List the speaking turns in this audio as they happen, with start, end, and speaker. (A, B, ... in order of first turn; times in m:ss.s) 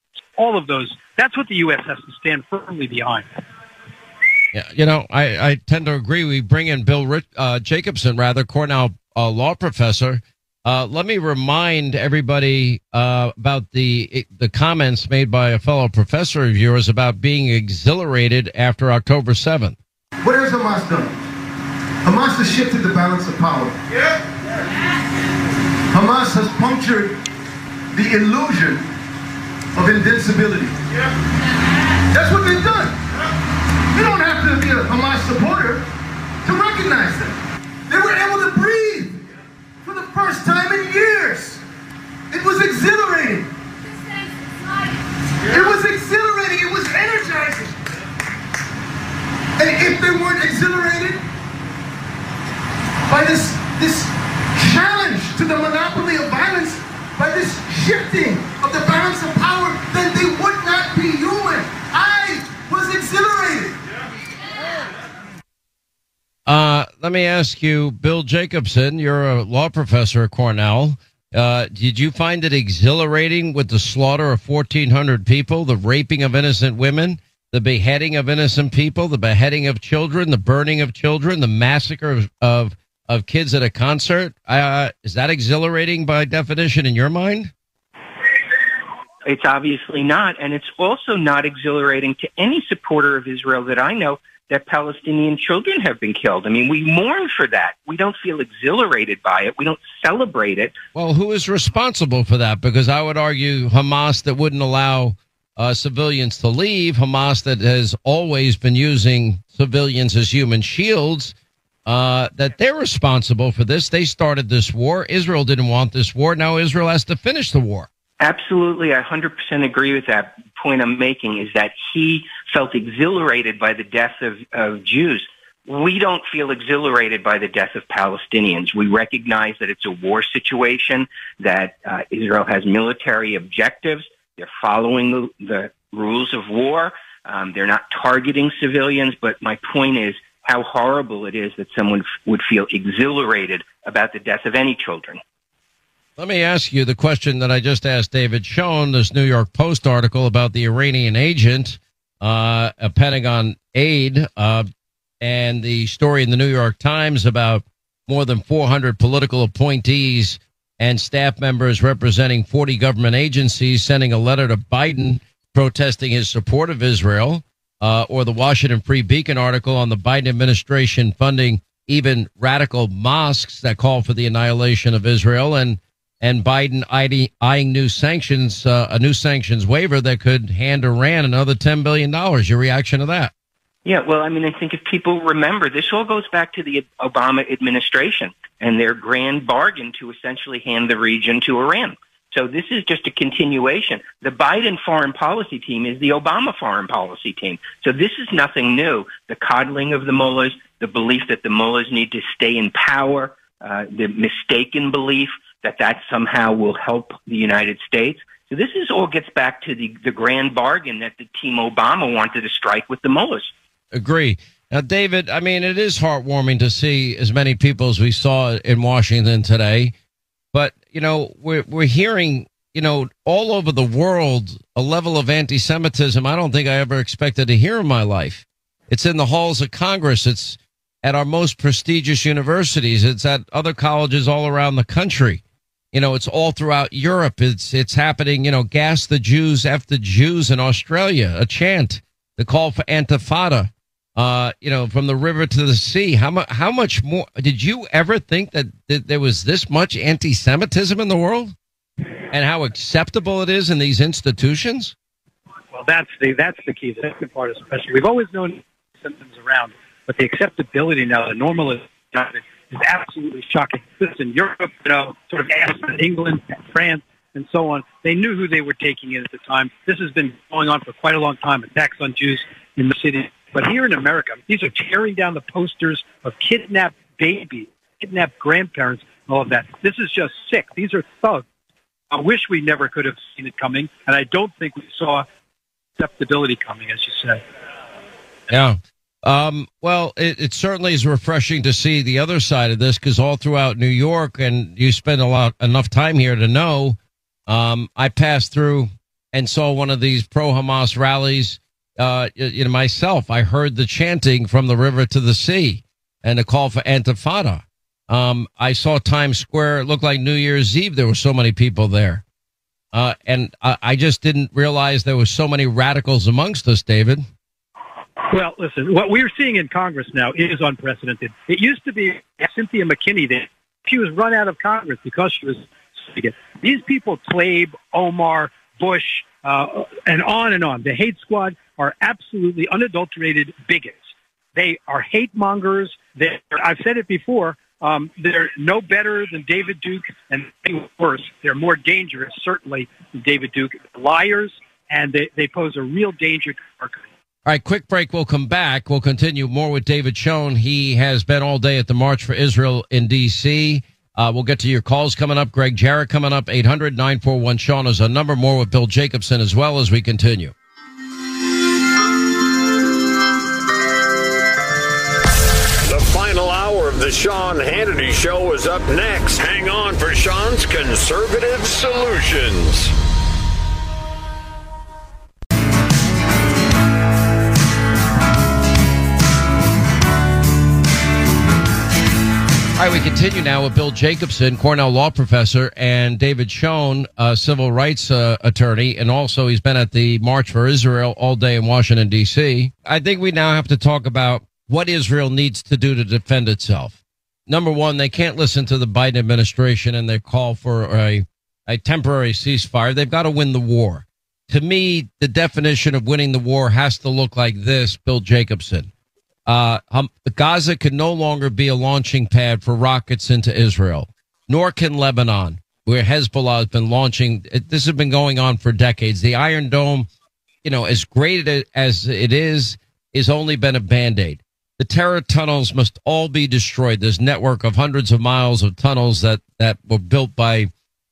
0:00.4-0:03.3 A
0:04.5-0:19.8 B
0:20.2-0:21.2 C
0:22.0-0:23.8 C
0:25.9-0:27.2 C
0:27.9-0:28.9 C
0:29.7-0:30.8 C
0:32.1-0:33.0 C
0:33.9-0:35.8 C
0:36.4-0:39.3 C
0:39.8-0:41.6 C
0:42.3-0:43.5 C
0:45.4-0:47.8 C
0:49.6-0:51.2 C
0:53.1-1:03.8 C
1:06.4-1:27.5 B
1:29.2-1:40.7 D
1:40.9-1:51.3 B
1:51.8-1:57.9 B
1:58.2-2:25.2 D
2:26.2-2:34.7 B
2:35.2-3:03.3 B
3:03.8-3:33.5 D
3:33.9-3:39.9 B
3:40.5-3:55.4 B
3:55.9-4:11.5 B
4:12.3-4:14.9 B
4:15.7-4:41.4 A
4:42.1-4:45.2 A
4:46.0-4:47.4 A
4:48.5-5:12.2 B
5:12.9-5:17.2 B
5:18.3-5:47.0 A
5:47.4-6:00.5 B
6:05.9-6:12.9 E
6:22.8-6:48.9 B
6:49.4-7:00.1 B
7:00.6-7:10.7 B